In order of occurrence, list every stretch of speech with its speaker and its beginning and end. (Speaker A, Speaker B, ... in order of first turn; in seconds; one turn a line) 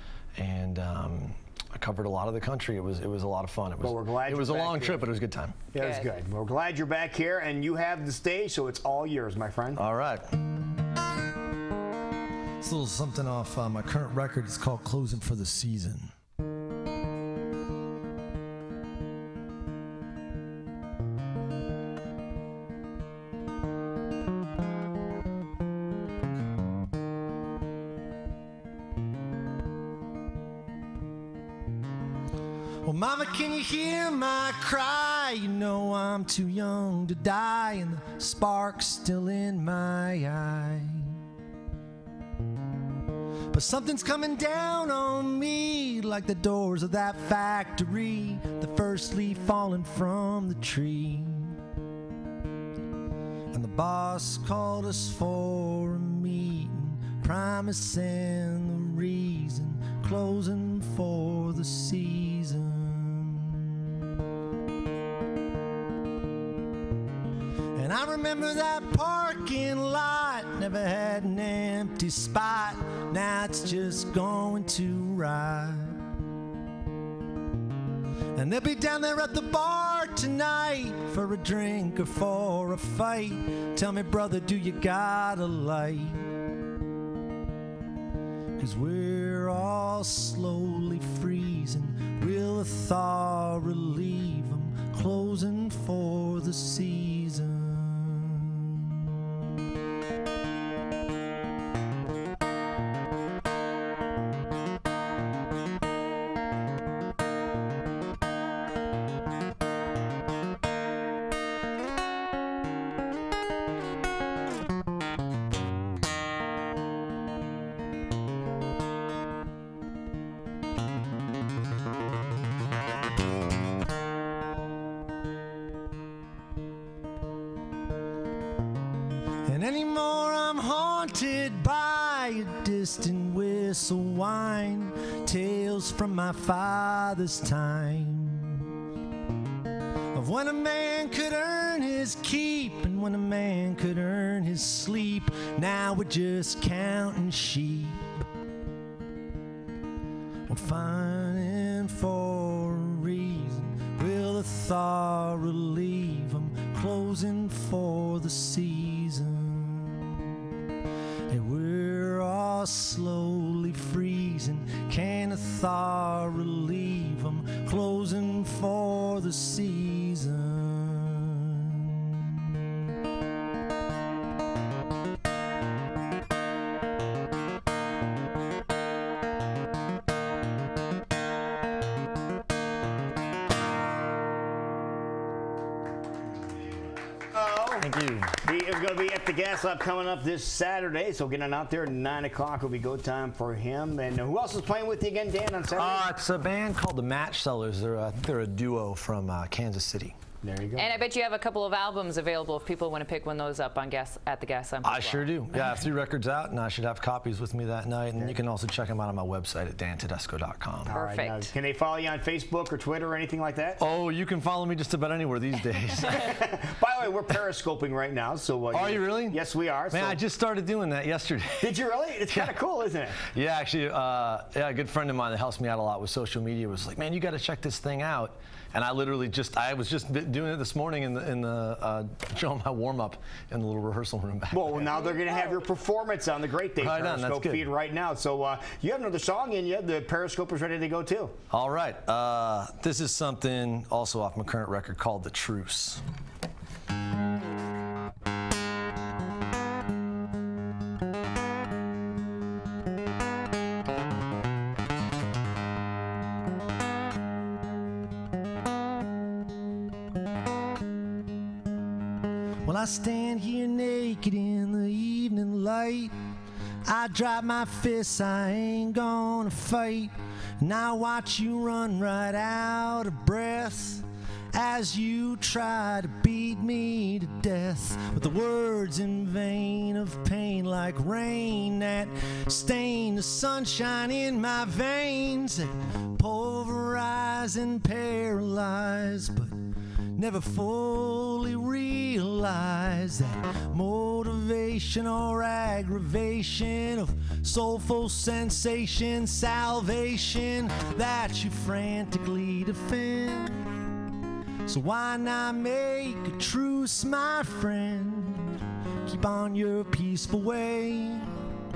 Speaker A: 0.4-5.5
Speaker B: 3.8-5.1
Speaker B: 5.7-9.8
Speaker C: 5.8-6.1
Speaker A: 9.8-10.2
Speaker D: 12.6-13.3
Speaker A: 13.3-13.9
Speaker D: 13.9-16.1
Speaker D: 32.8-41.2
Speaker D: 43.5-51.6
Speaker D: 53.5-64.0
Speaker D: 67.8-76.0
Speaker D: 78.3-86.3
Speaker D: 88.6-99.2
Speaker D: 129.4-138.7
Speaker D: 140.1-148.0
Speaker D: 150.5-160.4
Speaker D: 161.3-172.5
Speaker B: 187.3-187.9
Speaker A: 187.9-188.3
Speaker B: 188.4-196.1
Speaker A: 195.8-200.1
Speaker B: 200.4-201.0
Speaker C: 200.8-205.8
Speaker A: 204.8-210.9
Speaker B: 210.9-213.8
Speaker C: 210.9-211.5
Speaker A: 213.8-216.0
Speaker D: 216.0-216.3
Speaker B: 216.0-220.2
Speaker A: 218.7-219.4
Speaker A: 219.9-221.6
Speaker B: 221.6-223.2
Speaker A: 223.3-234.9
Speaker B: 234.5-241.3
Speaker A: 236.8-237.7
Speaker A: 241.5-246.0
Speaker D: 262.6-266.1
Speaker D: 266.9-289.6
Speaker D: 290.2-303.8
Speaker D: 304.7-311.4